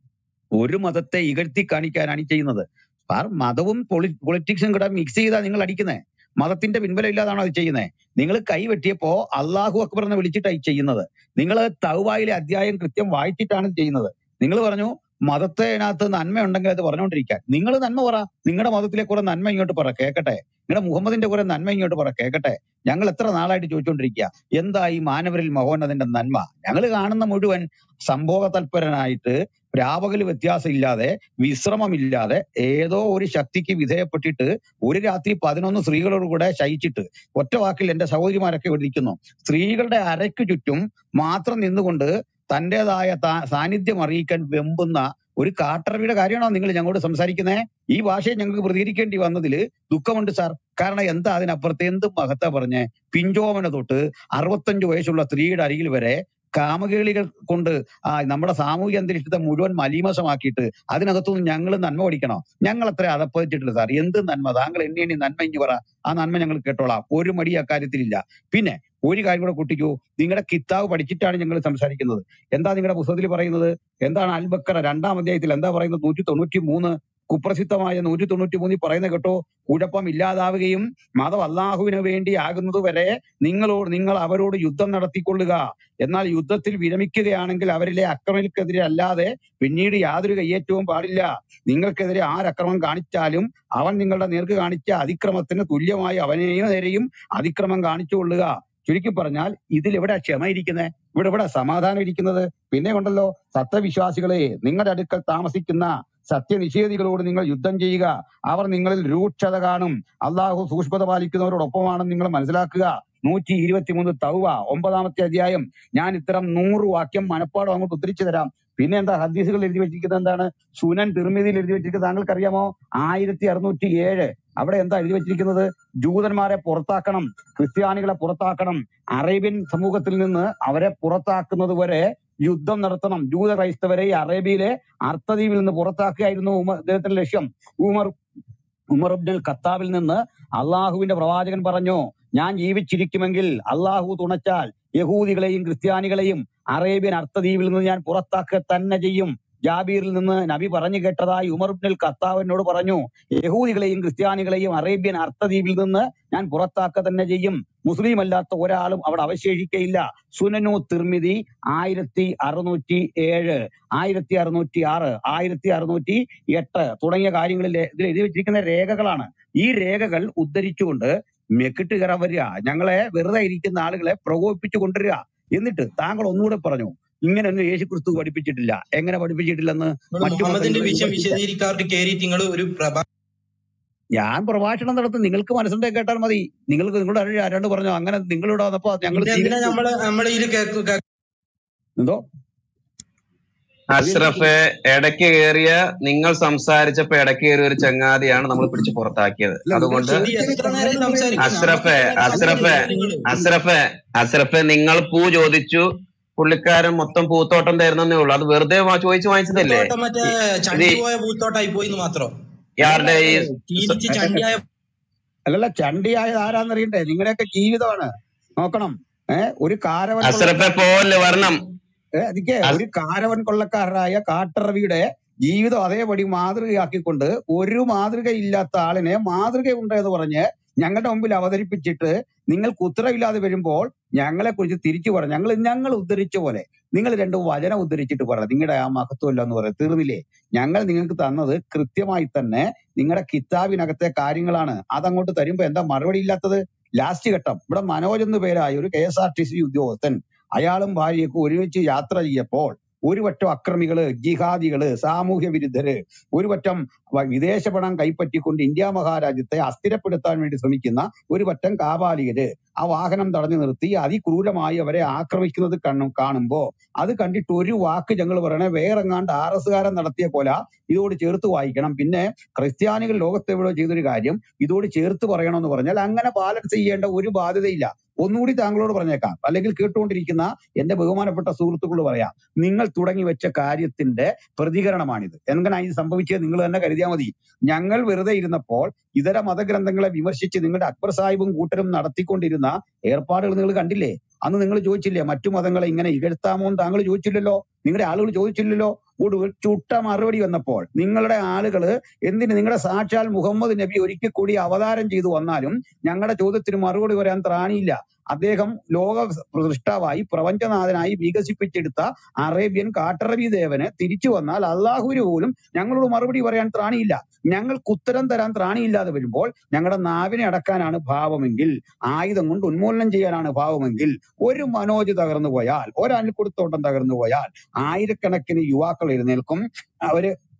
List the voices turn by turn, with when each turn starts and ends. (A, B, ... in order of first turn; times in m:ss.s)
0:00.6-2:18.1 A
2:18.9-3:01.4 A
3:00.1-3:03.0 B
3:04.2-3:09.8 A
3:09.1-3:11.0 B
3:13.9-3:20.3 C
3:14.1-3:14.4 A
3:14.1-3:14.4 B
3:19.7-3:23.5 B
3:21.4-3:25.8 C
3:26.4-3:29.9 C
3:29.5-3:32.3 B
3:30.7-3:31.0 C
3:32.8-3:34.0 C
3:32.8-3:34.6 B
3:35.5-3:38.1 A
3:38.6-3:41.4 A
3:40.2-3:41.6 C
3:42.2-5:30.3 A